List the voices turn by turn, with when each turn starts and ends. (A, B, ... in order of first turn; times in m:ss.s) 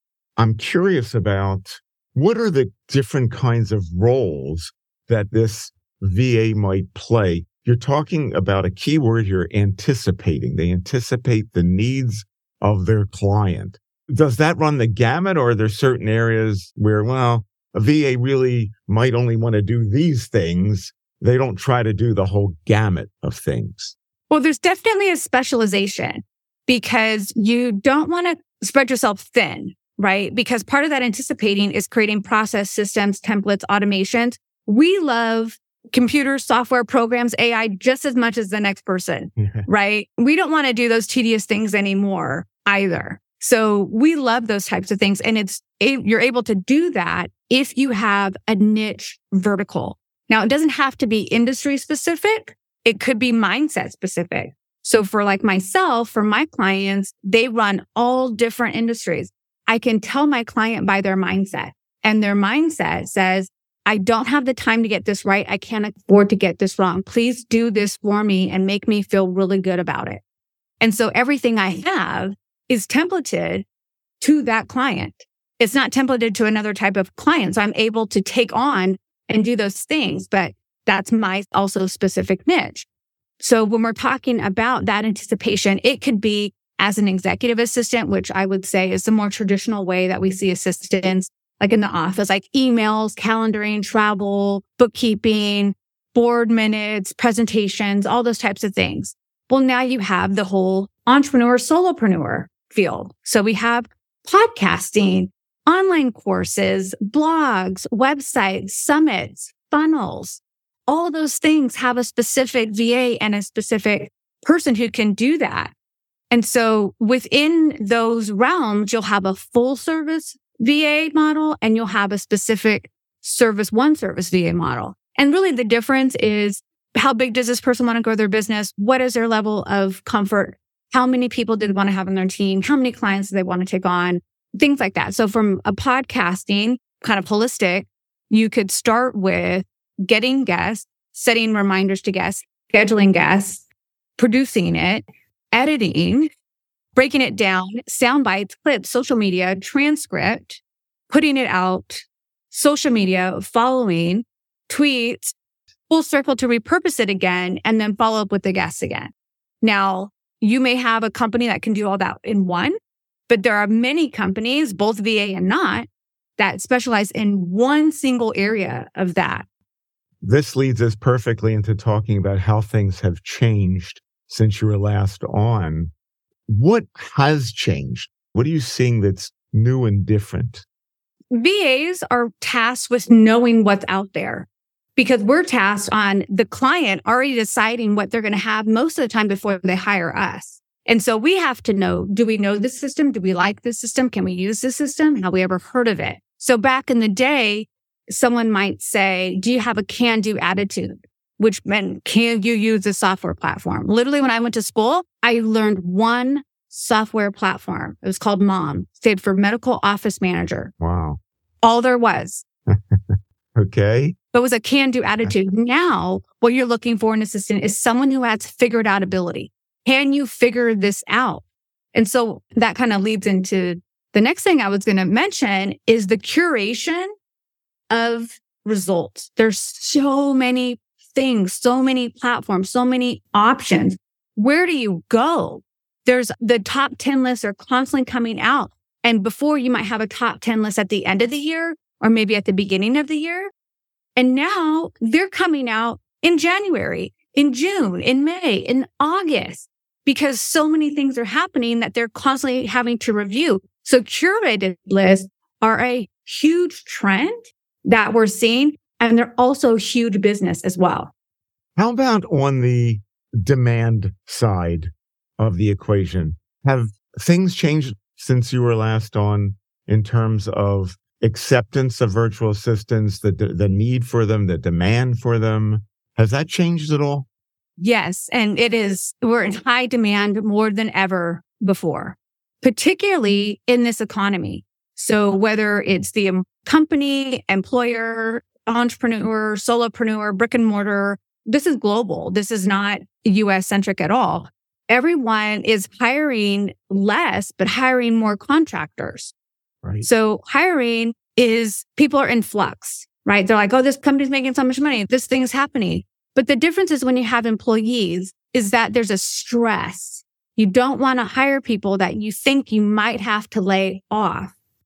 0:00.4-0:23.9 A
0:24.3-1:10.2 B
0:39.4-0:39.7 A
1:10.8-1:13.6 B
1:14.2-1:22.9 B
1:23.4-1:55.7 B
1:56.3-2:23.6 B
2:24.2-2:26.3 B
2:26.9-2:35.3 B
2:35.9-2:42.8 B
2:43.3-2:49.4 B
2:50.2-2:55.9 A
2:56.5-3:00.6 A
3:01.3-3:30.7 B
3:30.8-3:31.2 A
3:31.6-3:32.4 B
3:32.7-3:34.2 A
3:34.3-3:47.1 B
3:47.9-4:03.5 B
4:04.2-4:21.1 B
4:21.8-4:37.3 A
4:37.8-4:59.3 B
5:00.0-5:14.5 B